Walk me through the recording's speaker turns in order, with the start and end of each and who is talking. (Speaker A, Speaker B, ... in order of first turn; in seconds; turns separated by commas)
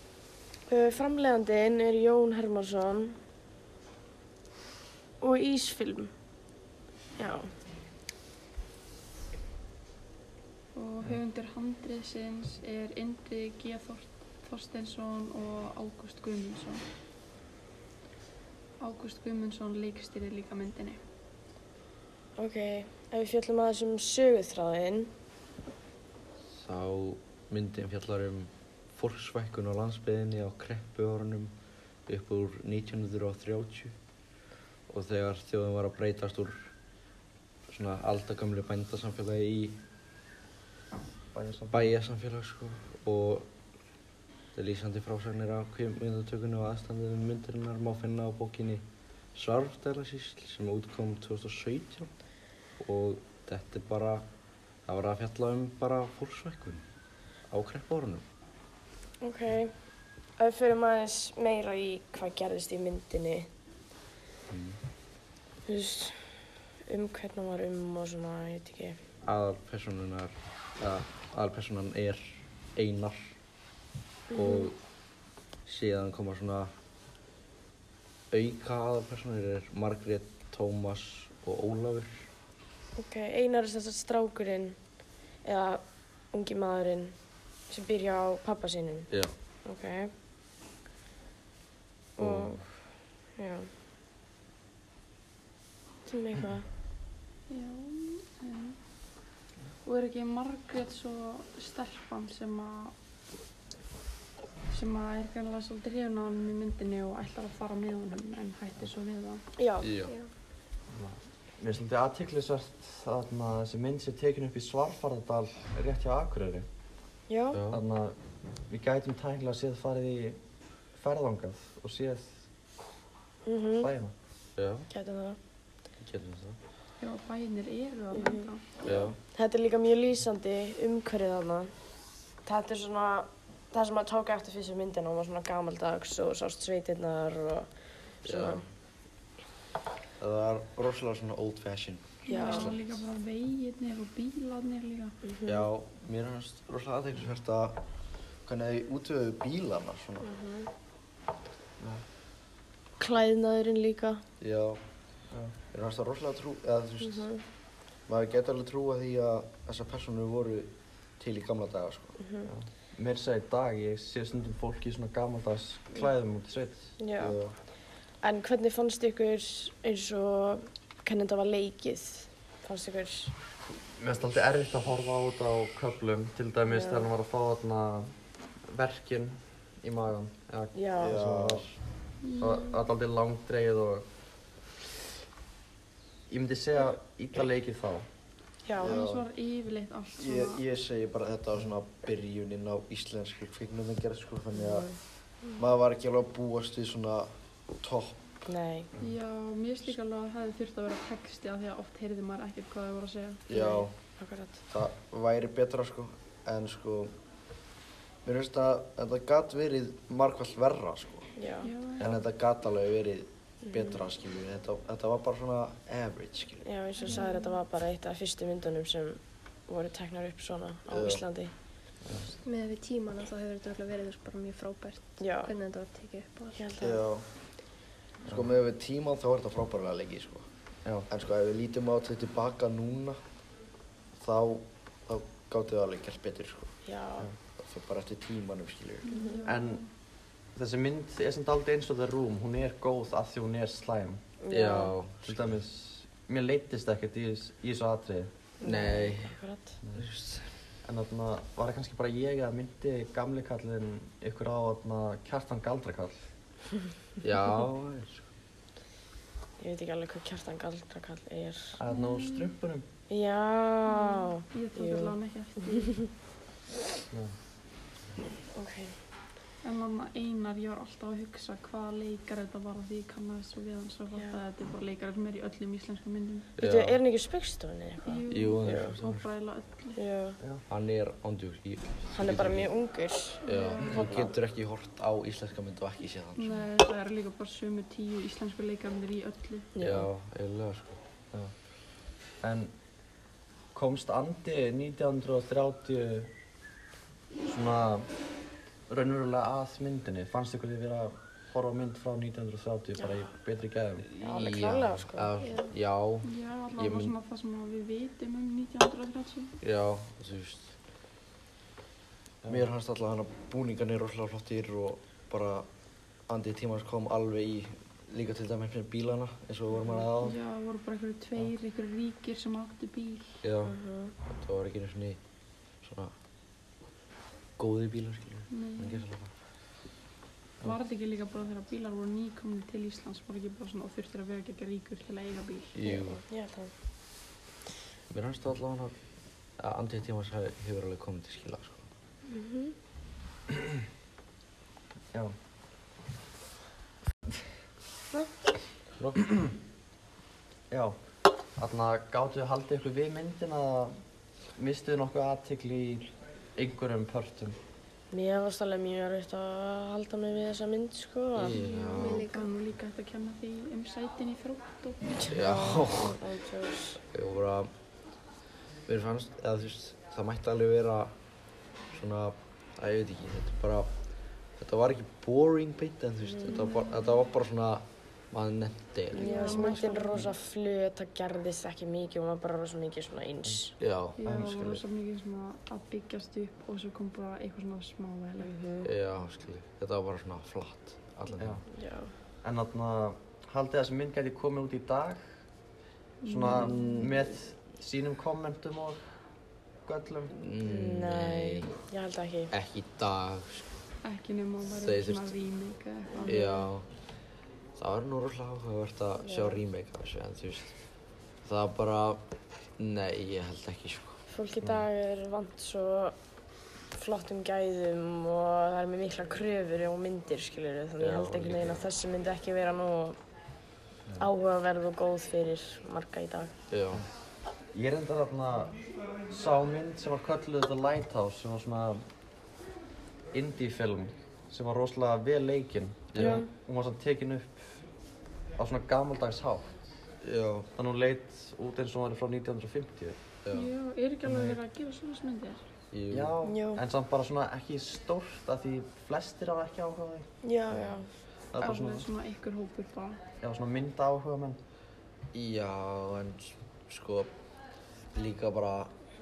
Speaker A: 0.7-3.2, Speaker A: 5.2-6.1, Speaker A: 7.2-7.5, Speaker B: 10.8-16.8, Speaker B: 18.8-21.0, Speaker A: 22.4-25.1, Speaker C: 26.5-31.5, Speaker C: 32.1-34.0, Speaker C: 34.9-36.7, Speaker C: 37.7-39.8, Speaker D: 41.3-41.9, Speaker C: 41.7-43.5, Speaker C: 44.5-48.8, Speaker C: 49.4-52.1, Speaker C: 52.8-54.3, Speaker C: 54.9-56.9, Speaker C: 57.5-58.2, Speaker A: 59.2-59.7, Speaker A: 60.4-63.5, Speaker C: 64.5-64.8, Speaker A: 65.7-66.2, Speaker A: 66.9-69.0, Speaker C: 69.2-73.4, Speaker A: 74.3-74.7, Speaker C: 74.3-74.8, Speaker C: 75.7-76.7, Speaker C: 78.3-82.3, Speaker A: 83.0-84.8, Speaker A: 85.4-87.2, Speaker A: 87.7-89.1, Speaker A: 89.7-90.1, Speaker A: 92.2-92.6, Speaker C: 92.2-92.6, Speaker A: 93.4-93.7, Speaker A: 96.1-96.7, Speaker B: 97.5-98.8, Speaker B: 99.8-102.9, Speaker B: 104.7-109.4, Speaker A: 109.6-109.9, Speaker C: 109.8-110.1, Speaker E: 110.0-110.3, Speaker D: 110.9-116.7, Speaker A: 117.3-117.6, Speaker C: 117.5-117.8, Speaker D: 117.7-118.2, Speaker D: 118.7-120.4, Speaker D: 121.0-122.4, Speaker A: 123.5-123.9, Speaker D: 123.8-124.1, Speaker C: 124.6-124.9, Speaker A: 124.9-125.4, Speaker C: 126.0-126.6, Speaker B: 127.0-128.7, Speaker A: 128.1-131.7, Speaker C: 128.8-129.2, Speaker A: 132.4-137.7, Speaker A: 138.2-138.6, Speaker C: 138.2-138.7, Speaker C: 140.2-142.8, Speaker B: 142.3-145.2, Speaker A: 142.3-142.8, Speaker A: 145.2-145.7, Speaker C: 145.4-147.8, Speaker C: 148.5-150.3, Speaker A: 150.2-150.7, Speaker A: 153.0-154.2, Speaker C: 154.4-154.8, Speaker C: 155.7-157.3, Speaker A: 157.0-157.4, Speaker C: 158.1-162.2, Speaker A: 162.2-162.5, Speaker D: 162.4-166.9, Speaker A: 167.0-167.4, Speaker C: 167.2-167.6, Speaker A: 168.2-173.3, Speaker D: 174.0-178.1, Speaker A: 176.7-177.1, Speaker D: 178.7-181.7, Speaker A: 180.7-181.2, Speaker C: 181.0-181.8, Speaker B: 182.2-182.8, Speaker D: 182.4-184.1, Speaker D: 186.3-188.1, Speaker A: 188.7-189.0, Speaker C: 188.8-189.3, Speaker B: 188.8-190.6, Speaker C: 190.2-194.9, Speaker A: 194.5-194.9, Speaker C: 195.6-198.3, Speaker A: 198.4-198.9, Speaker B: 199.0-203.4, Speaker C: 203.5-203.9, Speaker A: 203.5-204.6, Speaker C: 204.7-207.2, Speaker C: 208.2-211.3, Speaker A: 211.4-211.7, Speaker B: 211.6-212.1, Speaker C: 212.0-216.7, Speaker A: 216.6-221.5, Speaker B: 217.0-217.6, Speaker C: 220.9-221.2, Speaker E: 222.3-226.6, Speaker A: 225.2-225.5, Speaker A: 226.5-227.0, Speaker C: 226.8-227.3, Speaker C: 228.3-230.5, Speaker C: 231.1-233.2, Speaker C: 234.2-236.8, Speaker A: 236.9-237.3, Speaker C: 237.6-239.1, Speaker B: 239.0-239.9, Speaker A: 239.1-239.4, Speaker D: 239.5-239.8, Speaker D: 240.6-244.2, Speaker A: 244.4-245.0, Speaker C: 244.5-245.6, Speaker D: 245.2-248.3, Speaker A: 248.6-249.8, Speaker C: 248.6-249.4, Speaker C: 249.9-250.5, Speaker D: 250.8-256.3, Speaker C: 257.2-258.3, Speaker A: 259.6-261.8, Speaker D: 261.7-262.9, Speaker B: 261.9-262.5, Speaker A: 263.1-265.2, Speaker B: 263.9-266.1, Speaker A: 268.5-268.9, Speaker B: 269.6-276.5, Speaker C: 276.6-277.0, Speaker A: 276.6-278.9, Speaker B: 278.0-280.0, Speaker C: 278.3-279.3, Speaker A: 279.9-280.4, Speaker C: 280.7-282.7, Speaker A: 282.1-283.4, Speaker B: 283.4-284.3, Speaker C: 283.4-286.6, Speaker B: 286.4-289.7, Speaker A: 289.7-290.1, Speaker C: 289.8-291.0, Speaker D: 292.4-292.7, Speaker D: 293.7-296.3, Speaker D: 297.4-298.1, Speaker D: 298.9-304.1, Speaker C: 304.1-307.1, Speaker A: 304.2-305.3, Speaker E: 305.4-305.8, Speaker B: 306.2-309.5, Speaker C: 309.6-310.8, Speaker C: 312.4-315.7, Speaker C: 316.3-320.4, Speaker B: 319.9-323.3, Speaker C: 323.4-325.2, Speaker A: 323.6-324.1, Speaker C: 325.8-326.1, Speaker C: 327.6-329.3, Speaker B: 328.5-329.1, Speaker B: 330.6-335.8, Speaker C: 335.8-336.2, Speaker A: 335.8-336.7, Speaker C: 338.1-338.9, Speaker C: 339.6-341.9, Speaker A: 342.3-342.8, Speaker D: 350.7-351.0, Speaker D: 351.6-354.0, Speaker D: 354.6-357.6, Speaker A: 358.1-361.6, Speaker C: 361.4-362.3, Speaker E: 361.6-362.6, Speaker B: 361.6-365.1, Speaker A: 365.2-367.0, Speaker C: 365.3-366.2, Speaker C: 367.1-367.7, Speaker C: 368.9-371.1, Speaker C: 371.9-373.9, Speaker C: 374.6-380.2, Speaker A: 379.1-383.8, Speaker B: 379.1-380.3, Speaker C: 383.8-384.8, Speaker B: 384.2-388.5, Speaker D: 384.2-384.8, Speaker A: 388.4-388.9, Speaker C: 388.8-391.6, Speaker D: 391.4-391.6, Speaker A: 391.7-392.1, Speaker D: 392.4-395.2, Speaker B: 396.2-397.1, Speaker D: 396.3-399.0, Speaker D: 399.9-400.3, Speaker C: 400.3-401.8, Speaker A: 400.6-402.5, Speaker C: 402.5-403.7, Speaker B: 404.0-406.6, Speaker C: 404.7-405.3, Speaker C: 406.2-406.9, Speaker A: 406.3-406.6, Speaker C: 407.8-410.8, Speaker A: 409.3-409.6, Speaker C: 411.4-412.3, Speaker C: 412.8-414.2, Speaker A: 414.3-416.1, Speaker A: 416.9-423.2, Speaker C: 421.0-421.9, Speaker A: 424.2-426.5, Speaker C: 426.7-427.1, Speaker D: 427.7-432.0, Speaker D: 433.3-437.8, Speaker C: 436.1-436.4, Speaker A: 436.2-436.5, Speaker D: 438.6-439.7, Speaker C: 440.2-440.7, Speaker D: 440.8-443.2, Speaker C: 443.4-443.7, Speaker B: 443.5-445.6, Speaker D: 444.2-444.6, Speaker C: 445.9-446.4, Speaker D: 446.1-450.3, Speaker A: 446.4-446.8, Speaker A: 450.4-451.1, Speaker D: 451.5-452.1, Speaker B: 451.6-453.2, Speaker D: 453.4-454.6, Speaker C: 455.3-457.3, Speaker C: 458.1-458.9